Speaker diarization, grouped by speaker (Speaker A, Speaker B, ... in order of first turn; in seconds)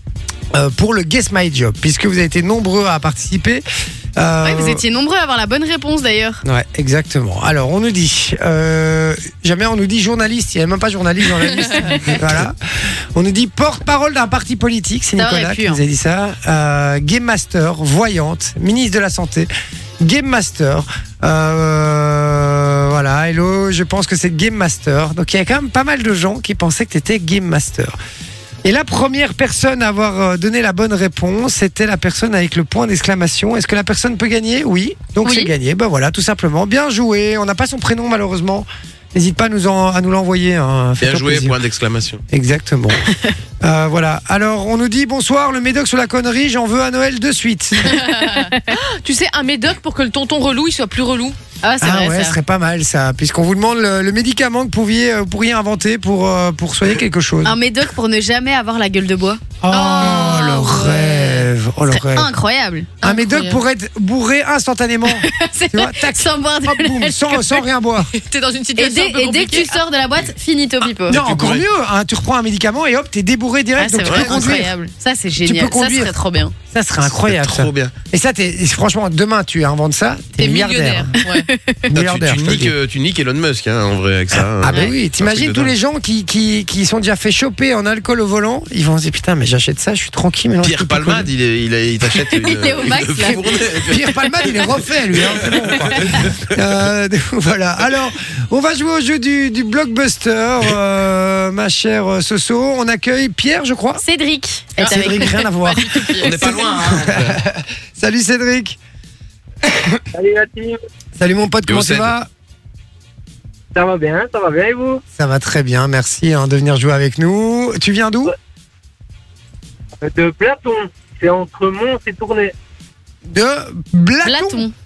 Speaker A: 0.5-3.6, 4.2-4.8, 6.4-28.0, 28.6-41.6, 42.3-43.0, 43.6-47.9, 51.8-57.6, 59.6-62.3, 63.0-68.1, 71.1-74.7, 75.4-76.1, 76.7-81.1, 81.9-82.7, 84.3-91.3, 93.9-104.0, 104.8-108.8, 109.6-110.0, 111.2-112.3, 115.2-118.3, 123.3-124.7
Speaker B: 4.4-6.4, 15.2-15.8, 35.2-35.5, 47.8-48.8, 51.6-52.4, 57.4-63.0, 65.1-67.6, 68.8-71.2, 73.8-76.5, 81.2-81.8, 92.3-94.0, 104.0-106.2, 124.2-124.7
Speaker C: 41.0-42.2, 71.1-71.6, 74.1-74.6, 77.0-77.9, 82.0-85.7, 90.6-96.5, 106.2-107.4, 111.7-112.1
Speaker D: 47.9-51.4, 59.9-60.4, 63.0-63.6, 68.1-69.8, 80.4-81.5, 104.8-106.2
Speaker E: 110.1-110.8, 113.8-115.0, 120.0-122.5